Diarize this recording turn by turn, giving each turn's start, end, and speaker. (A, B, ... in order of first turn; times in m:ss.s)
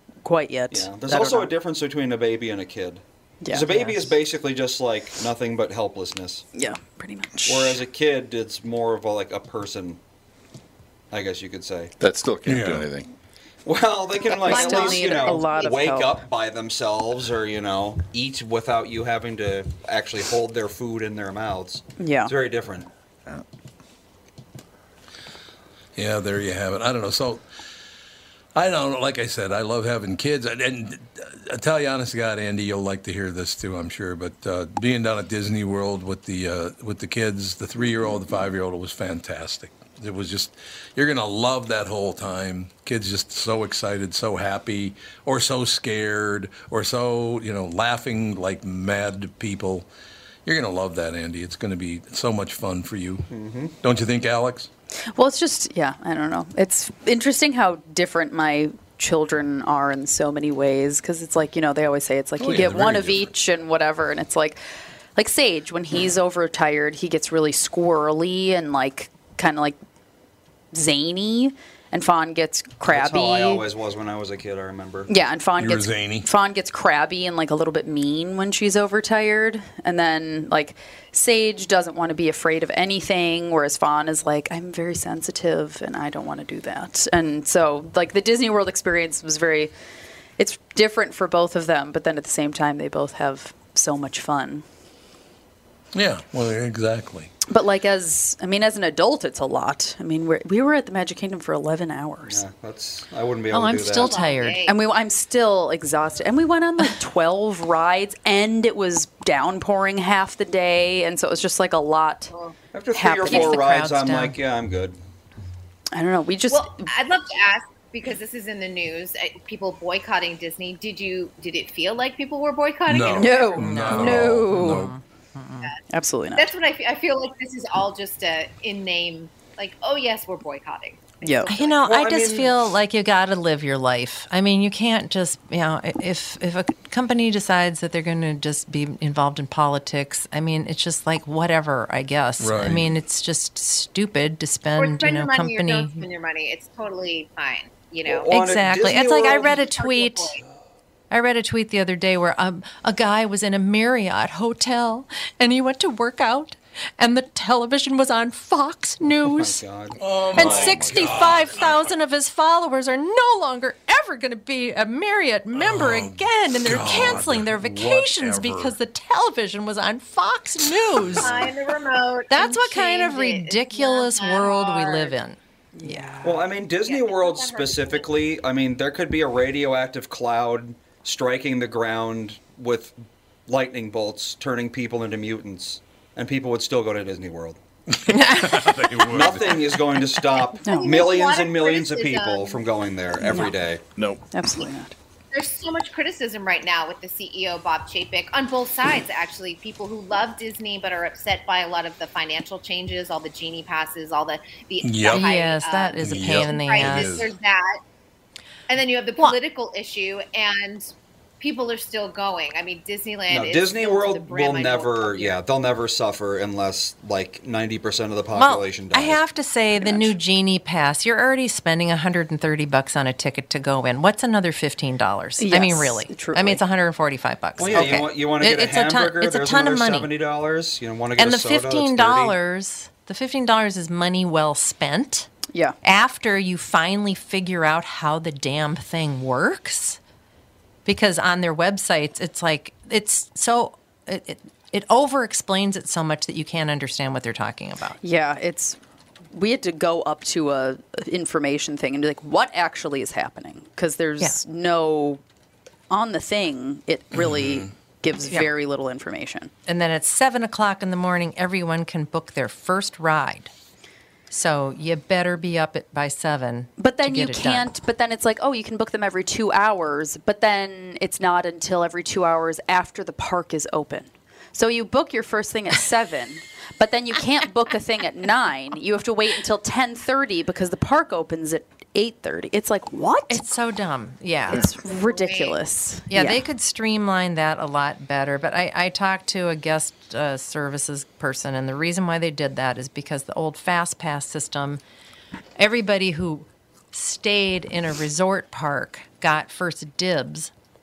0:00.2-0:01.5 A
0:00.7-0:06.5 B
0:03.4-0:04.1 A
0:06.5-0:07.8 A
0:07.4-0:10.0 B
0:11.1-0:11.9 B
0:12.0-0:13.1 C
0:12.4-0:12.9 D
0:13.6-0:22.9 B
0:14.3-0:15.8 E
0:14.4-0:16.2 A
0:22.0-0:22.3 A
0:26.0-0:27.4 D
0:28.5-0:49.9 D
0:50.4-0:53.3 D
0:53.3-0:53.7 B
0:53.8-0:54.7 D
0:55.1-1:04.6 A
1:02.4-1:03.3 D
1:05.2-1:09.8 A
1:10.7-1:13.6 A
1:12.8-1:15.1 B
1:15.1-1:29.7 A
1:15.6-1:16.2 D
1:30.4-1:34.6 A
1:35.9-1:37.3 D
1:37.5-1:42.4 A
1:42.2-1:44.1 B
1:43.5-1:44.6 F
1:43.9-1:44.8 E
1:44.6-1:52.3 A
1:52.7-1:55.0 B
1:52.9-1:53.6 A
1:53.3-1:54.4 F
1:55.9-1:56.9 A
1:56.5-2:03.7 E
2:02.9-2:04.9 D
2:03.1-2:04.9 A
2:03.6-2:05.7 F
2:05.9-2:06.5 A
2:06.4-2:11.8 E
2:11.2-2:11.5 A
2:11.5-2:26.0 F
2:11.8-2:12.5 B
2:22.4-2:22.9 D
2:24.8-2:28.3 E
2:28.0-2:29.6 B
2:28.3-2:30.4 F
2:29.1-2:30.4 E
2:31.1-2:39.6 F
2:39.1-2:40.8 B
2:40.0-2:41.9 D
2:40.3-2:51.5 F
2:40.4-2:41.1 C
2:45.5-2:48.7 D
2:50.6-2:51.4 D
2:51.2-2:55.2 E
2:52.3-2:56.2 F
2:55.7-2:56.4 A
2:56.2-3:07.6 B
2:56.8-2:58.1 E
3:07.9-3:09.6 D
3:08.1-3:08.8 F
3:09.1-3:13.8 B
3:10.4-3:12.6 E
3:10.6-3:11.1 A
3:13.2-3:13.5 A
3:14.0-3:14.2 C
3:14.3-3:14.9 A
3:15.3-3:27.8 E
3:24.8-3:25.3 D
3:25.1-3:27.2 F
3:26.0-3:27.3 D
3:28.7-3:35.4 E
3:33.3-3:39.2 B
3:38.3-3:50.1 F
3:39.8-3:40.1 A
3:45.4-3:46.6 A
3:47.6-3:52.4 B
3:47.6-3:48.0 A
3:51.2-3:55.3 F
3:55.5-3:55.8 A
3:55.8-4:00.0 F
4:00.8-4:08.0 F
4:08.0-4:08.8 A
4:09.3-4:15.2 A
4:15.9-4:19.5 A
4:17.1-4:17.7 D
4:19.7-4:23.5 F
4:24.3-4:27.8 F
4:26.8-4:43.5 A
4:43.3-4:44.6 F
4:44.5-4:46.4 A
4:44.5-4:45.6 E
4:46.1-4:54.8 F
4:55.6-5:00.5 F